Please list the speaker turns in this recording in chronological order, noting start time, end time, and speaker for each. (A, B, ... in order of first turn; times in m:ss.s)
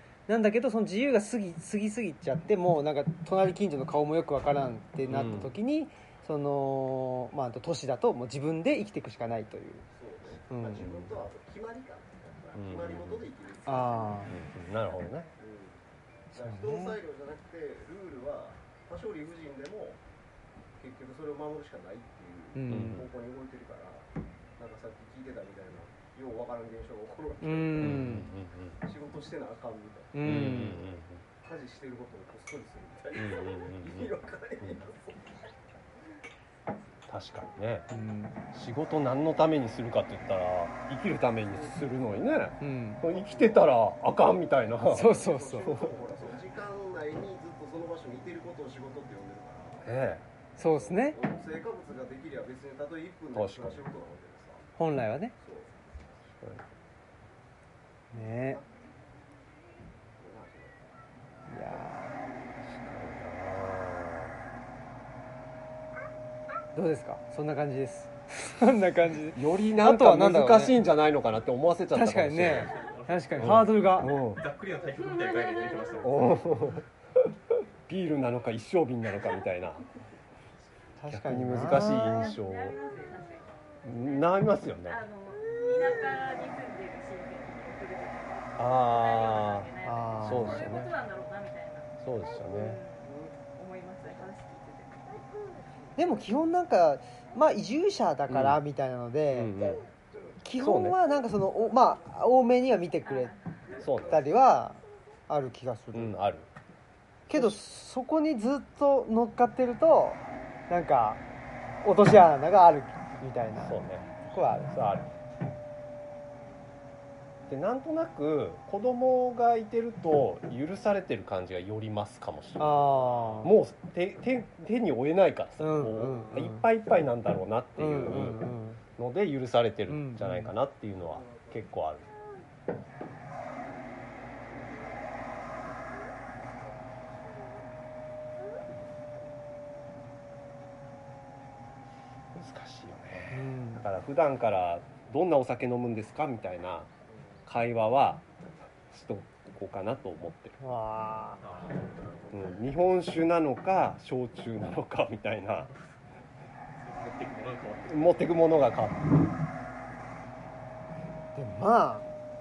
0:00.3-0:09.8 A
0:05.1-0:05.6 B
0:09.9-0:14.4 C
0:10.5-0:10.9 A
0:10.8-0:11.2 B
0:12.6-0:13.3 B
0:13.7-0:14.3 A
0:14.3-0:15.3 B
0:15.4-0:15.8 C
0:16.3-0:20.0 C
0:16.3-0:17.0 A
0:20.8-0:28.2 C
0:22.6-0:23.0 A
0:22.7-0:23.1 B
0:27.4-0:28.3 A
0:27.8-0:28.8 B
0:28.8-0:30.7 C
0:30.1-0:30.8 A
0:30.2-0:31.2 B
0:31.4-0:35.4 C
0:33.2-0:34.8 B
0:37.1-0:37.9 B
0:37.9-0:38.4 A
0:38.5-0:46.0 B
0:42.6-0:43.0 A
0:43.1-0:43.7 C
0:44.8-0:49.9 C
0:44.9-0:45.8 A
0:49.8-0:50.2 B
0:50.6-0:51.2 A
0:50.7-0:54.6 C
0:53.3-0:53.8 B
0:54.8-0:55.4 A
0:55.4-0:56.2 C
0:56.4-0:56.6 B
0:58.1-0:58.6 A
0:58.2-0:58.7 C
1:00.2-1:00.8 C
1:01.5-1:02.2 A
1:02.7-1:04.4 B
1:06.7-1:10.8 A
1:09.3-1:12.7 B
1:11.9-1:14.1 A
1:12.5-1:16.5 D
1:13.4-1:14.4 B
1:16.0-1:16.8 B
1:17.9-1:19.8 B
1:21.0-1:22.2 A
1:21.1-1:22.8 B
1:21.7-1:35.1 E
1:23.8-1:25.0 B
1:28.6-1:29.7 B
1:29.8-1:30.7 A
1:30.2-1:30.9 B
1:32.0-1:32.8 B
1:33.0-1:33.3 C
1:36.0-1:39.6 A
1:38.3-1:38.6 B
1:39.3-1:39.8 B
1:40.4-1:43.3 A
1:40.6-1:41.0 B
1:43.0-1:43.9 E
1:43.8-1:44.2 B
1:44.0-1:46.2 A
1:45.9-1:46.5 B
1:47.3-1:47.6 B
1:47.3-1:51.2 A
1:51.8-1:54.7 A
1:53.6-1:54.1 B
1:54.7-1:55.1 B
1:57.5-2:12.1 B
2:02.6-2:03.6 A
2:02.8-2:03.4 C
2:05.6-2:06.7 A
2:06.0-2:06.4 C
2:07.8-2:08.8 A
2:09.9-2:10.5 A
2:11.0-2:11.6 C
2:14.4-2:15.2 C
2:22.3-2:26.9 B
2:23.3-2:23.8 A
2:27.4-2:28.2 B
2:28.9-2:30.6 B
2:30.6-2:31.4 A
2:31.4-2:32.3 D
2:32.3-2:35.7 B
2:36.8-2:38.0 D
2:37.8-2:39.1 B
2:41.4-2:42.1 A